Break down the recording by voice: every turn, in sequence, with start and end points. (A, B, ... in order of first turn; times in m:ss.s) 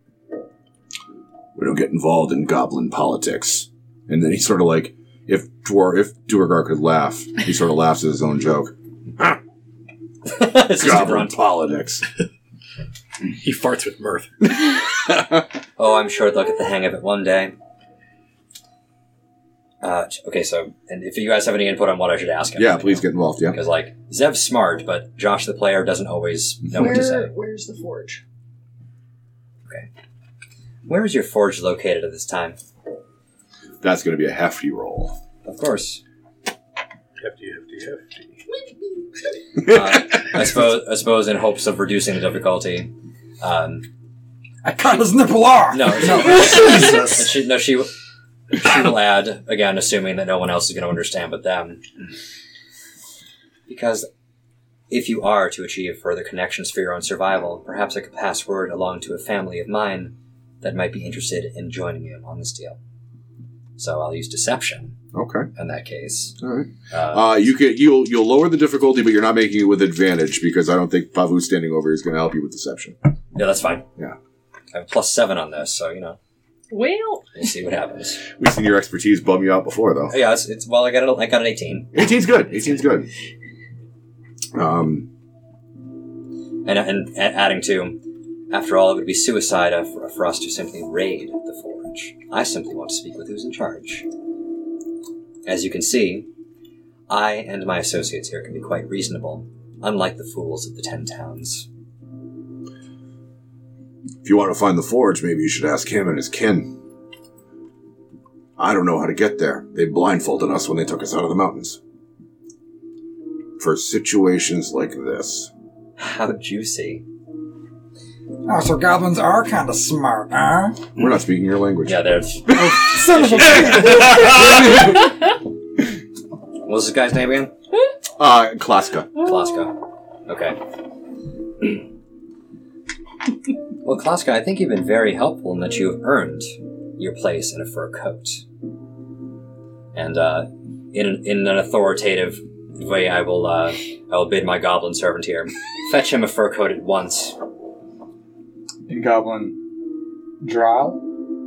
0:01.5-0:09.4 A
0:10.3-0:11.4 B
0:10.7-0:12.0 A
0:13.4-0:14.3 C
0:15.0-0:15.4 A
0:15.8-0:17.5 B
0:19.8-0:27.3 B
0:22.6-0:23.6 A
0:26.7-0:28.2 D
0:30.8-0:32.6 B
0:33.8-0:35.2 A
0:35.4-0:36.0 B
0:37.2-0:38.2 C
0:39.6-0:43.8 B
0:44.6-0:47.2 E
0:45.7-0:47.9 B
0:48.5-0:51.8 B
0:53.7-0:54.1 B
0:54.9-1:02.8 B
1:03.8-1:05.0 B
1:05.1-1:05.5 A
1:05.5-1:06.4 B
1:06.4-1:13.0 A
1:06.9-1:07.4 B
1:13.3-1:13.9 B
1:14.7-1:16.2 B
1:16.7-1:17.3 D
1:17.3-1:18.2 B
1:18.4-1:20.1 A
1:20.1-1:21.9 B
1:21.9-1:23.1 A
1:24.5-1:25.1 A
1:26.6-1:34.1 B
1:35.4-1:36.3 B
1:37.1-1:41.7 B
1:44.2-1:46.8 A
1:48.6-1:51.8 A
1:53.6-1:55.5 A
1:56.0-1:57.0 B
1:58.4-2:00.9 E
2:01.0-2:02.0 A
2:01.8-2:04.3 B
2:02.5-2:04.8 E
2:03.5-2:05.1 A
2:06.6-2:07.5 B
2:08.2-2:09.2 A
2:09.2-2:10.6 B
2:13.8-2:18.4 B
2:19.9-2:27.4 B
2:28.9-2:29.6 E
2:30.4-2:31.0 E